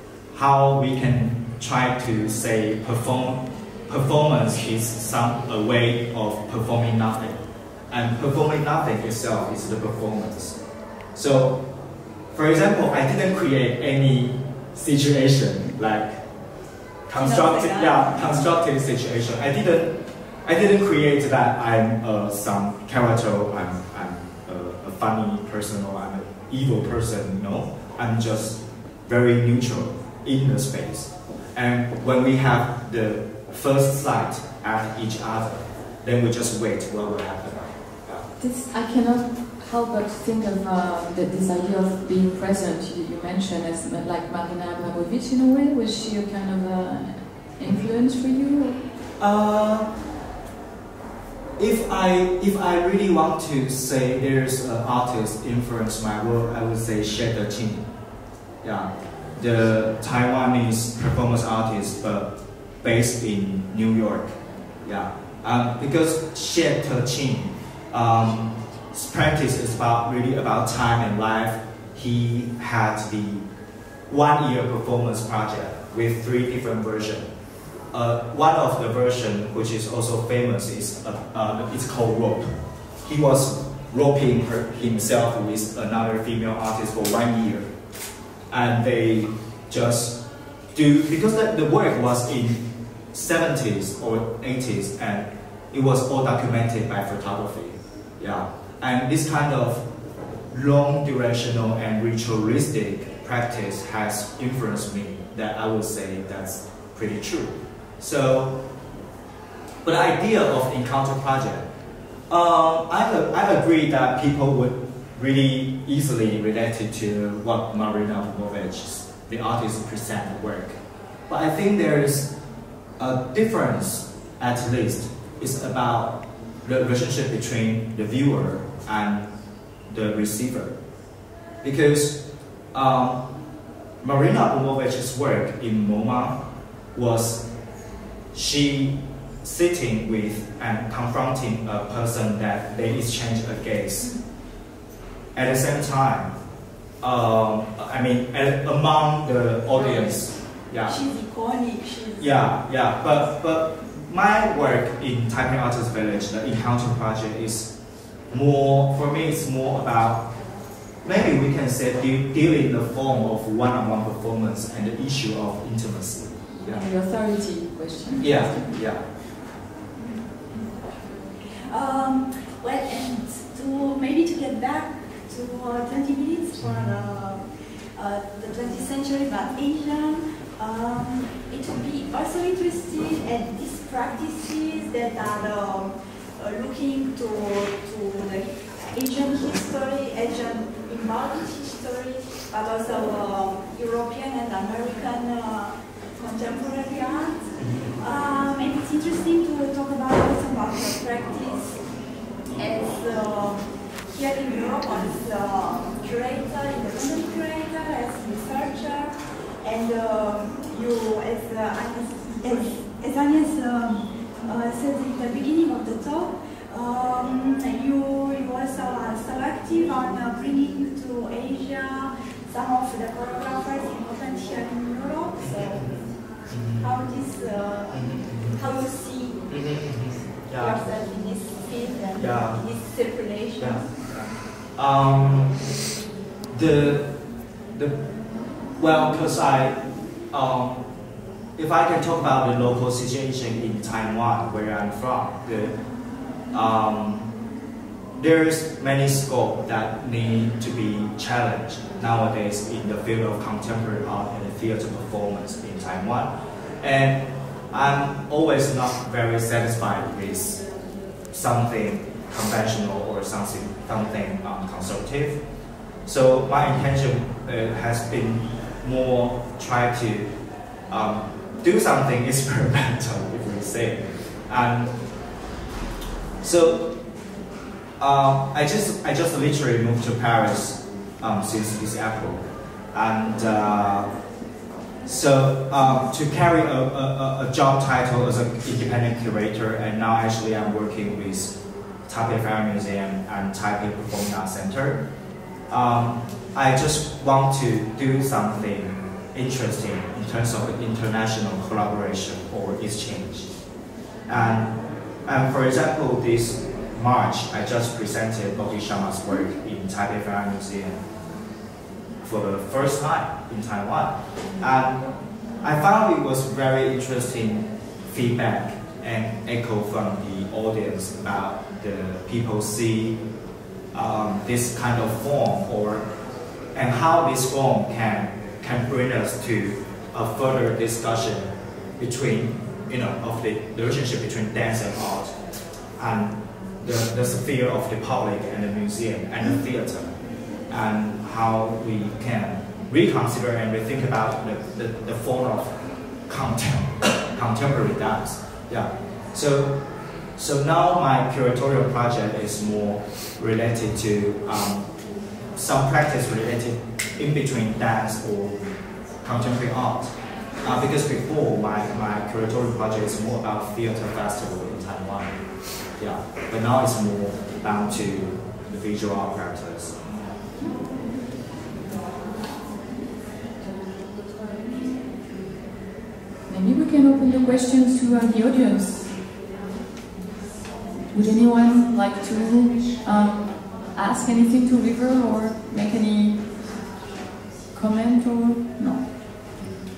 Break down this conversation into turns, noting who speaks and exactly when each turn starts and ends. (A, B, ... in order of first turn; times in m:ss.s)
0:00.3-0:10.6 A
0:11.2-0:11.6 A
0:12.3-0:16.2 A
0:17.1-0:38.3 A
0:17.1-0:18.4 B
0:38.4-0:48.8 C
0:49.2-0:49.9 A
0:51.6-0:57.8 A
0:58.6-1:02.3 A
1:02.8-1:13.4 A
1:14.1-1:17.3 A
1:17.9-1:22.5 A
1:23.0-1:27.7 A
1:28.5-1:30.2 A
1:30.7-1:39.8 A
1:40.5-1:48.6 A
1:49.8-1:51.7 A
1:52.3-2:00.8 A
2:01.3-2:02.3 A
2:03.0-2:09.3 A
2:09.9-2:10.7 A
2:11.6-2:12.2 A
2:12.7-2:13.2 A
2:14.0-2:16.4 A
2:16.9-2:17.4 A
2:18.3-2:24.1 A
2:25.3-2:26.3 A
2:27.0-2:31.0 A
2:29.8-2:30.3 B
2:30.8-2:32.4 B
2:32.2-2:37.7 A
2:38.3-2:40.3 A
2:41.0-2:46.8 A
2:46.5-2:48.5 C
2:48.2-2:49.0 A
2:50.0-2:50.9 B
2:51.7-2:57.4 B
2:56.6-2:56.9 A
2:57.9-3:21.8 B
3:17.6-3:17.9 A
3:22.6-3:46.1 B
3:45.4-3:46.0 A
3:46.5-3:46.9 A
3:46.8-3:49.4 B
3:47.9-3:48.6 A
3:49.5-3:50.8 A
3:50.5-3:53.9 B
3:52.2-3:52.6 A
3:53.6-3:53.8 A
3:54.8-3:55.6 A
3:56.5-3:57.1 A
3:58.8-3:59.8 A
4:00.3-4:00.8 A
4:01.6-4:05.7 A
4:06.5-4:07.3 A
4:08.2-4:16.3 A
4:16.8-4:20.6 A
4:21.3-4:25.4 A
4:26.0-4:30.3 A
4:30.9-4:34.9 A
4:36.4-4:37.0 A
4:38.0-4:44.1 A
4:45.0-4:51.5 A
4:52.1-4:55.0 A
4:55.7-5:03.5 A
5:04.3-5:11.0 A
5:12.2-5:15.1 A
5:15.6-5:23.2 A
5:23.9-5:26.0 A
5:26.7-5:35.3 A
5:36.0-5:40.2 A
5:40.7-5:45.7 A
5:46.3-5:49.8 A
5:50.4-5:54.9 A
5:55.5-5:58.6 A
5:59.2-6:05.4 A
6:06.0-6:10.0 A
6:16.5-6:19.1 C
6:21.1-6:26.7 C
6:27.7-6:29.6 C